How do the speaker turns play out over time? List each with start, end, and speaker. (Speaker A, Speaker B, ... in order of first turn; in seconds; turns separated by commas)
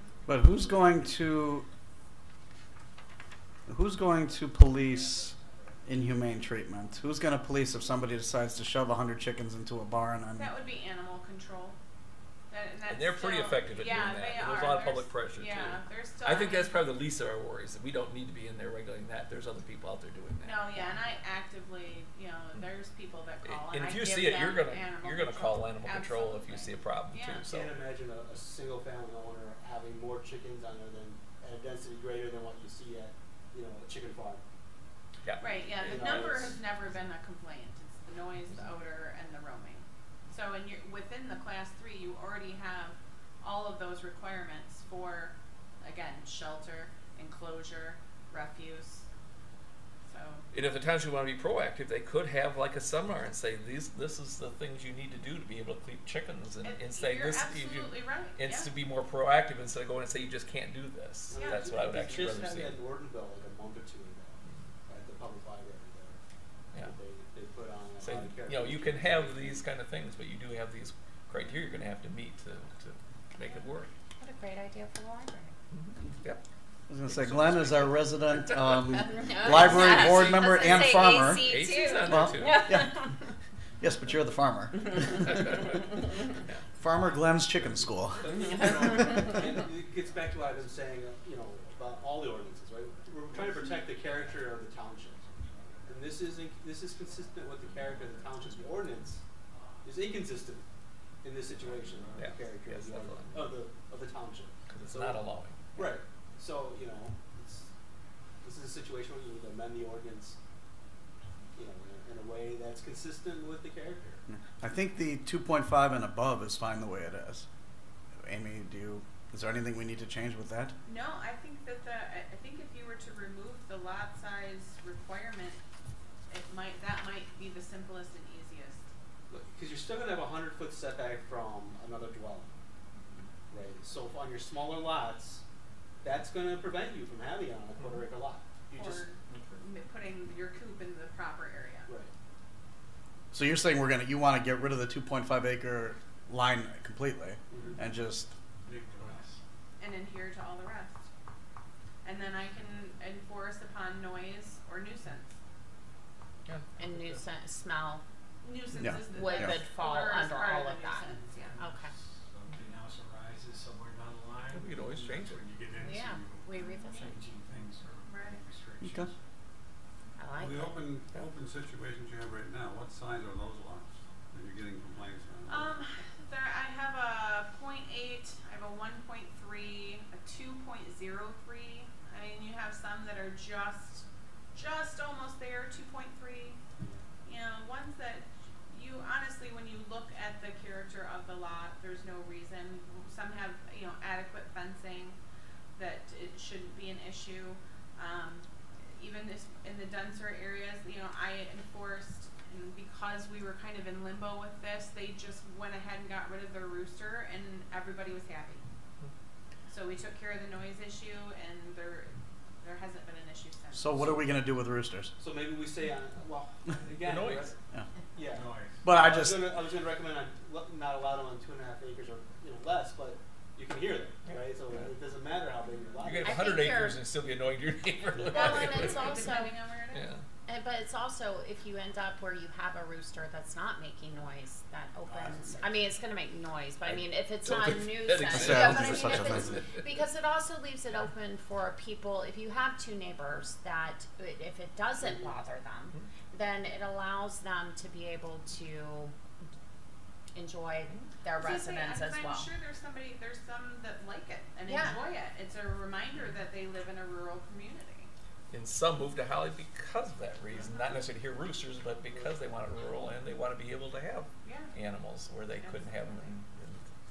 Speaker A: 0.3-1.7, Speaker A: 3.7-10.5, Speaker B: 10.3-11.8, Speaker B: 12.5-16.8, Speaker C: 12.9-20.8, Speaker B: 20.4-27.5, Speaker C: 23.4-27.7, Speaker D: 27.5-34.4, Speaker C: 35.2-35.5, Speaker B: 35.4-49.0, Speaker D: 35.8-36.6, Speaker B: 50.1-50.5, Speaker C: 50.5-62.8, Speaker B: 56.6-58.7, Speaker D: 61.3-66.2, Speaker B: 61.3-61.7, Speaker D: 66.8-69.6, Speaker C: 68.0-73.9, Speaker E: 74.2-75.6, Speaker C: 75.7-76.4, Speaker A: 76.9-83.0, Speaker C: 77.1-78.8, Speaker E: 78.9-83.3, Speaker C: 79.5-82.8, Speaker A: 83.8-85.6, Speaker E: 84.8-86.2, Speaker A: 86.8-88.3, Speaker F: 87.1-87.8, Speaker D: 88.2-95.2, Speaker E: 88.4-89.5, Speaker F: 88.4-92.5, Speaker F: 93.2-94.6, Speaker F: 95.1-96.0, Speaker D: 95.8-99.2, Speaker F: 97.0-99.0, Speaker F: 99.5-100.0, Speaker D: 99.8-100.7, Speaker D: 101.2-105.2, Speaker F: 101.6-102.5, Speaker C: 102.2-103.3, Speaker F: 103.3-103.6, Speaker C: 104.7-105.9, Speaker D: 105.8-107.7, Speaker D: 108.4-110.4, Speaker D: 111.5-114.2, Speaker A: 114.3-117.5, Speaker A: 118.2-120.8, Speaker B: 120.8-125.6, Speaker B: 126.3-128.8, Speaker D: 129.3-132.5, Speaker D: 133.5-135.4, Speaker D: 136.0-139.1, Speaker B: 138.7-141.9, Speaker F: 139.3-139.6, Speaker D: 141.9-142.1, Speaker A: 143.3-148.3, Speaker D: 147.5-147.8, Speaker G: 148.7-149.2, Speaker F: 148.7-149.4, Speaker B: 149.8-151.1, Speaker B: 152.0-155.4, Speaker C: 156.5-156.8, Speaker E: 156.8-158.0, Speaker B: 158.4-161.6, Speaker A: 158.7-159.6, Speaker E: 159.1-161.9, Speaker F: 161.4-169.1, Speaker C: 164.5-165.5, Speaker E: 165.8-167.2, Speaker B: 168.1-168.4, Speaker A: 168.8-169.1, Speaker E: 170.2-170.9, Speaker G: 170.3-175.8, Speaker B: 175.5-186.6, Speaker D: 186.8-187.0, Speaker B: 187.2-195.2, Speaker B: 195.8-208.6, Speaker B: 209.7-214.2, Speaker A: 213.7-215.1, Speaker D: 215.2-217.6, Speaker C: 217.0-217.5, Speaker D: 218.1-226.5, Speaker F: 218.2-218.9, Speaker A: 218.8-219.5, Speaker C: 224.3-224.9, Speaker C: 226.0-229.3, Speaker E: 226.2-227.0, Speaker E: 228.3-229.5, Speaker B: 228.3-230.1, Speaker C: 229.9-230.2, Speaker E: 230.5-249.1, Speaker D: 235.1-235.9, Speaker C: 236.8-239.7, Speaker A: 238.3-239.7, Speaker D: 245.0-245.3, Speaker E: 250.3-252.5, Speaker B: 251.4-258.1, Speaker E: 254.7-255.0, Speaker C: 258.5-266.8, Speaker B: 260.5-260.9, Speaker B: 264.4-264.7, Speaker B: 265.6-266.3